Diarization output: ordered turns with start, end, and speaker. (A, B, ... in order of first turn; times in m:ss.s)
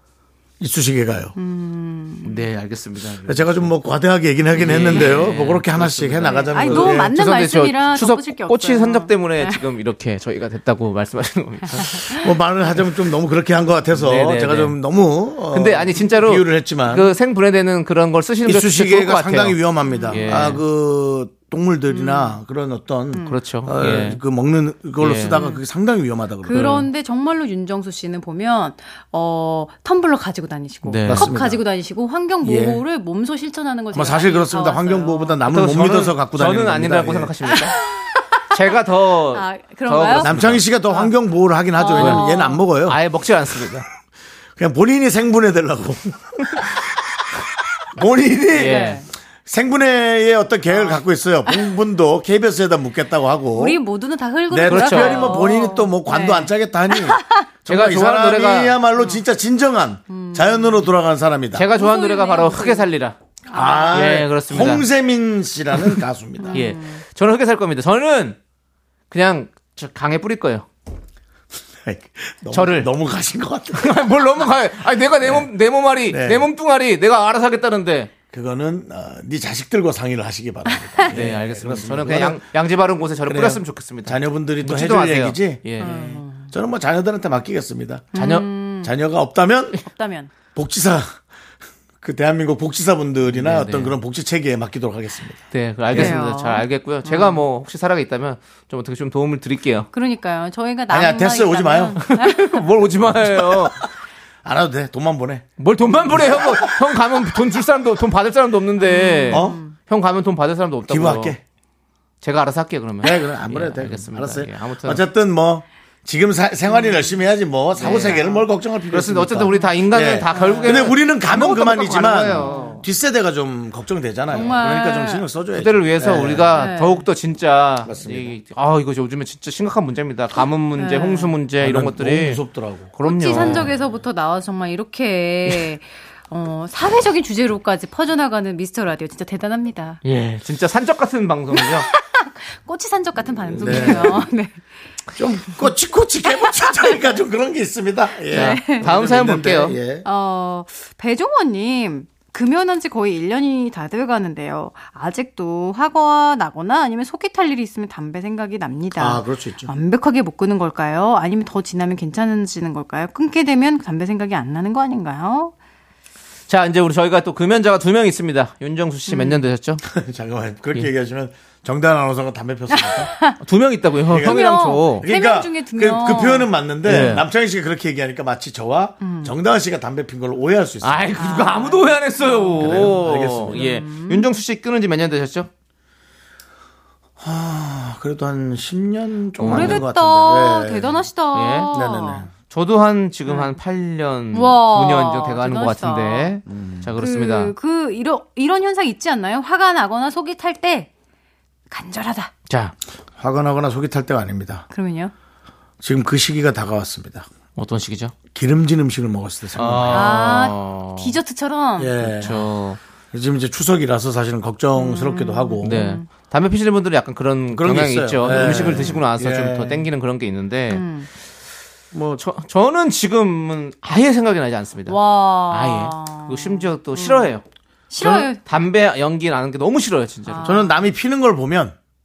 0:00.6-0:01.4 A
0:01.4-0:02.4 B
0:02.2-0:03.7 C
0:03.3-0:07.1 A
0:04.5-0:12.1 C
0:04.9-0:05.2 B
0:06.2-0:09.6 B
0:11.7-0:12.3 B
0:12.2-0:17.1 A
0:13.9-0:14.8 C
0:15.5-0:20.6 C
0:18.4-0:26.9 A
0:19.8-0:20.6 B
0:21.9-0:22.4 B
0:23.1-0:23.4 B
0:23.3-0:24.2 C
0:25.0-0:25.4 C
0:25.3-0:25.6 B
0:26.4-0:35.4 B
0:26.5-0:26.8 C
0:30.8-0:31.3 C
0:31.1-0:31.6 A
0:32.4-0:32.8 A
0:33.9-0:37.3 A
0:35.5-0:37.8 C
0:37.5-0:40.3 B
0:38.5-0:40.6 C
0:40.2-0:43.0 A
0:41.8-0:42.7 B
0:42.0-0:42.3 C
0:42.8-0:43.9 C
0:44.6-0:47.4 A
0:47.9-0:53.8 A
0:48.5-0:49.0 C
0:48.6-0:49.1 B
0:50.7-0:51.6 B
0:53.5-0:57.5 B
0:54.5-1:01.7 A
0:54.6-0:55.4 C
0:57.7-0:58.8 C
1:00.1-1:00.9 B
1:01.5-1:03.2 C
1:01.7-1:02.9 B
1:03.5-1:04.1 B
1:03.5-1:06.7 A
1:03.9-1:04.9 C
1:06.4-1:07.0 B
1:06.5-1:08.4 C
1:09.1-1:10.7 C
1:11.8-1:14.0 A
1:12.5-1:12.9 C
1:13.8-1:18.1 C
1:16.1-1:16.5 A
1:18.3-1:22.4 A
1:21.0-1:26.1 C
1:23.3-1:28.2 A
1:25.8-1:26.5 B
1:28.1-1:28.9 B
1:28.2-1:28.5 C
1:28.8-1:29.8 A
1:29.8-1:30.3 B
1:30.5-1:31.2 A
1:32.0-1:36.2 A
1:33.3-1:34.0 C
1:35.5-1:39.9 C
1:35.9-1:37.4 B
1:39.9-1:42.7 B
1:40.9-1:42.0 A
1:42.0-1:43.8 C
1:43.1-1:43.9 A
1:44.4-1:45.5 A
1:45.6-1:51.4 C
1:46.0-1:47.1 A
1:48.8-1:49.8 B
1:49.3-1:49.6 A
1:50.9-1:51.4 A
1:52.2-1:55.0 C
1:53.0-2:06.5 A
1:56.7-1:57.1 B
1:57.8-1:58.2 C
1:57.8-1:58.5 B
1:58.9-2:02.8 C
2:00.3-2:00.9 B
2:02.3-2:02.8 B
2:04.3-2:05.3 B
2:05.6-2:12.4 C
2:06.5-2:07.1 B
2:07.8-2:08.4 A
2:10.8-2:11.4 B
2:11.6-2:13.7 A
2:13.0-2:13.7 C
2:13.0-2:20.0 B
2:20.0-2:21.9 C
2:21.5-2:24.6 B
2:23.5-2:24.3 A
2:23.6-2:24.0 C
2:25.2-2:30.1 A
2:26.3-2:27.1 B
2:28.3-2:28.9 B
2:28.3-2:29.8 C
2:30.0-2:45.5 B
2:39.0-2:39.7 A
2:46.5-2:49.8 C
2:49.1-2:49.4 B
2:49.8-2:53.1 A
2:52.7-2:53.4 B
2:53.4-2:55.1 C
2:54.1-2:56.5 B
2:54.1-3:01.1 A
2:56.8-2:57.2 C
2:59.0-2:59.3 B
3:00.8-3:05.5 C
3:01.2-3:04.3 B
3:02.6-3:03.7 A
3:07.2-3:11.1 A
3:09.4-3:09.8 C
3:09.4-3:12.3 B
3:11.3-3:11.8 C
3:11.7-3:12.3 A
3:12.5-3:17.5 C
3:13.3-3:13.6 B
3:14.3-3:16.4 B
3:16.5-3:16.9 A
3:17.0-3:20.9 B
3:21.7-3:22.3 B
3:22.5-3:22.7 C
3:23.2-3:24.7 A
3:24.7-3:25.1 B
3:25.8-3:27.3 A
3:27.6-3:28.1 C
3:28.3-3:30.2 A
3:29.6-3:31.2 C
3:29.9-3:32.1 B
3:31.8-3:32.5 A
3:32.1-3:32.8 C
3:33.1-3:35.8 A
3:34.8-3:36.1 B
3:35.6-3:40.8 C
3:37.5-3:39.9 A
3:38.3-3:39.0 B
3:40.7-3:41.1 B
3:41.9-3:42.2 A
3:42.1-3:47.4 C
3:44.9-3:47.3 B
3:47.9-3:48.4 B
3:48.0-3:50.6 C
3:50.3-3:50.8 B
3:50.4-3:51.8 A